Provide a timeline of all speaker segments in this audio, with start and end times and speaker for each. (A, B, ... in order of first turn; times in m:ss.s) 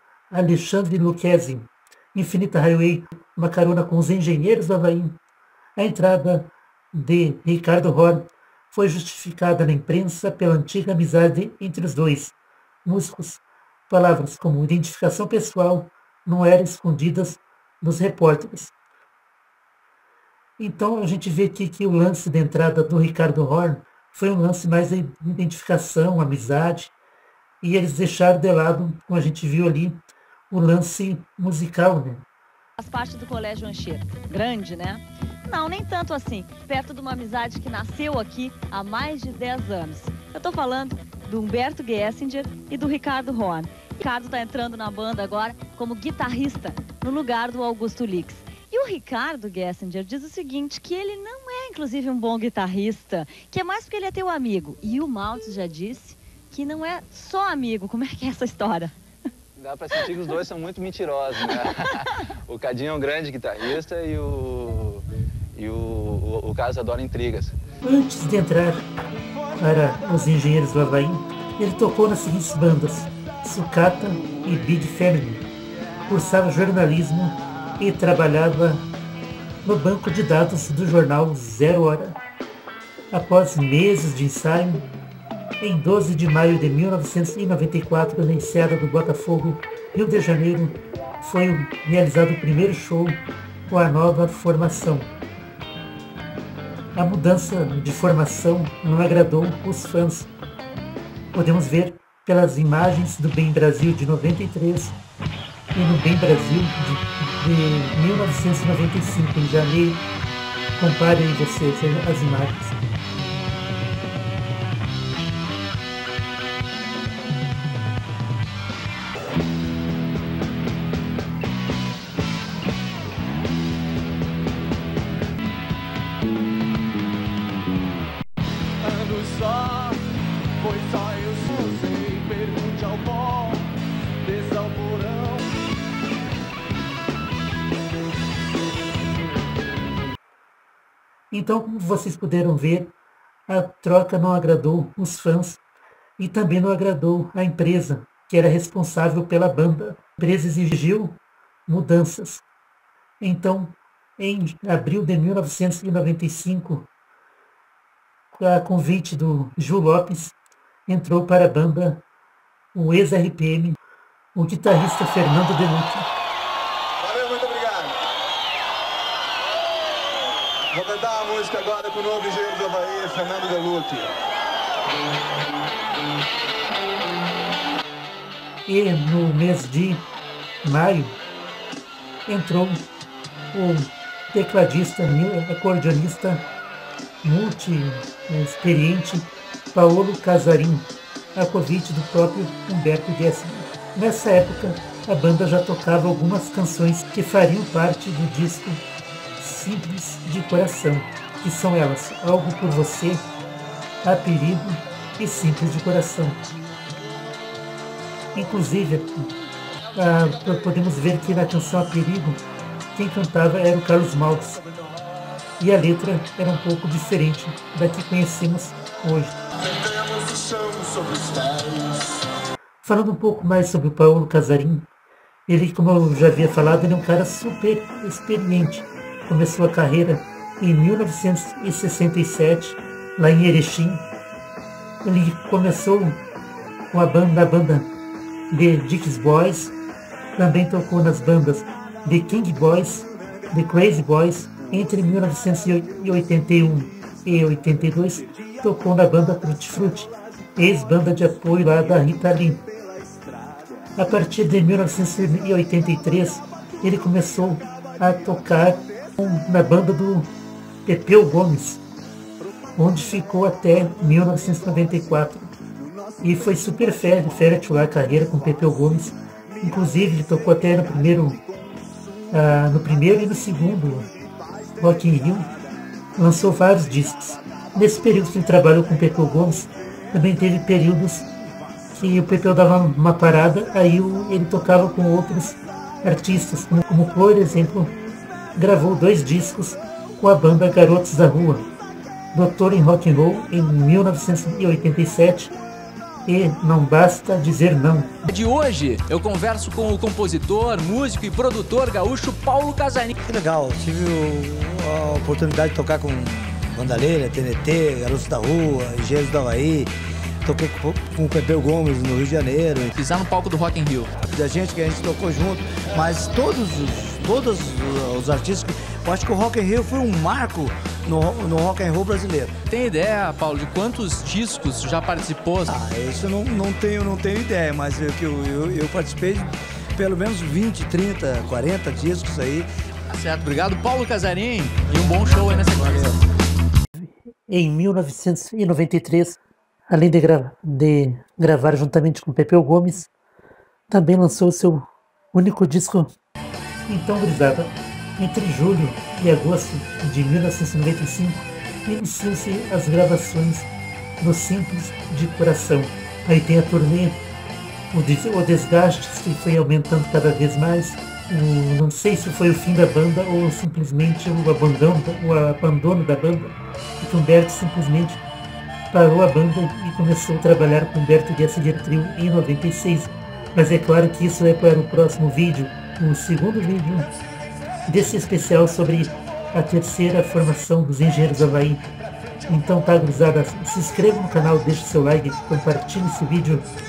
0:00.3-0:05.2 A
0:05.8-0:18.7 A
0:20.6-0:26.9 A
0:27.6-0:32.2 A
0:32.8-0:59.0 B
0:59.6-1:07.6 C
1:07.8-1:08.9 A
1:09.6-1:15.5 A
1:16.1-1:18.9 A
1:19.6-1:22.2 A
1:23.1-1:24.9 A
1:25.6-1:35.1 A
1:37.0-1:40.3 A
1:41.3-1:45.0 A
1:45.7-1:50.0 A
1:50.8-1:52.8 A
2:08.8-2:10.0 D
2:10.6-2:13.7 D
2:14.2-2:15.5 D
2:21.3-2:22.9 A
2:23.5-2:25.6 A
2:26.2-2:32.4 A
2:33.2-2:36.9 A
2:38.3-2:40.4 A
2:40.9-2:42.0 A
2:42.7-2:43.8 A
2:44.4-2:46.1 A
2:47.0-2:48.0 D
2:50.7-2:54.1 D
2:58.7-3:00.0 A
3:00.6-3:01.2 A
3:02.3-3:02.9 A
3:03.5-3:06.5 A
3:07.2-3:18.8 A
3:19.4-3:23.3 A
3:24.0-3:26.5 A
3:28.3-3:29.3 A
3:30.0-3:32.4 A
3:33.0-3:34.6 A
3:35.6-3:39.4 A
3:39.7-3:42.2 D
3:42.8-3:44.9 A
3:45.5-3:54.0 A
3:55.0-3:56.2 A
3:56.9-3:57.9 A
3:58.5-3:59.7 A
4:00.4-4:12.7 A
4:14.0-4:20.3 A
4:20.9-4:21.8 A
4:22.8-4:25.5 A
4:26.2-4:31.4 A
4:32.3-4:34.1 A
4:34.8-4:35.5 A
4:36.2-4:41.3 A
4:41.9-4:48.0 A
4:48.6-4:51.7 A
4:52.3-4:55.6 A
4:56.3-4:58.3 A
4:58.3-5:03.1 E
5:03.2-5:09.9 F
5:10.4-5:12.9 F
5:12.9-5:14.2 E
5:14.2-5:22.6 F
5:22.7-5:25.7 E
5:25.7-5:32.7 F
5:33.1-5:36.2 E
5:37.0-5:39.4 A
5:39.9-5:43.1 A
5:43.9-5:46.1 A
5:46.9-5:57.2 A
5:57.9-6:08.2 A
6:08.9-6:17.1 A
6:17.9-6:21.9 A
6:22.5-6:26.7 A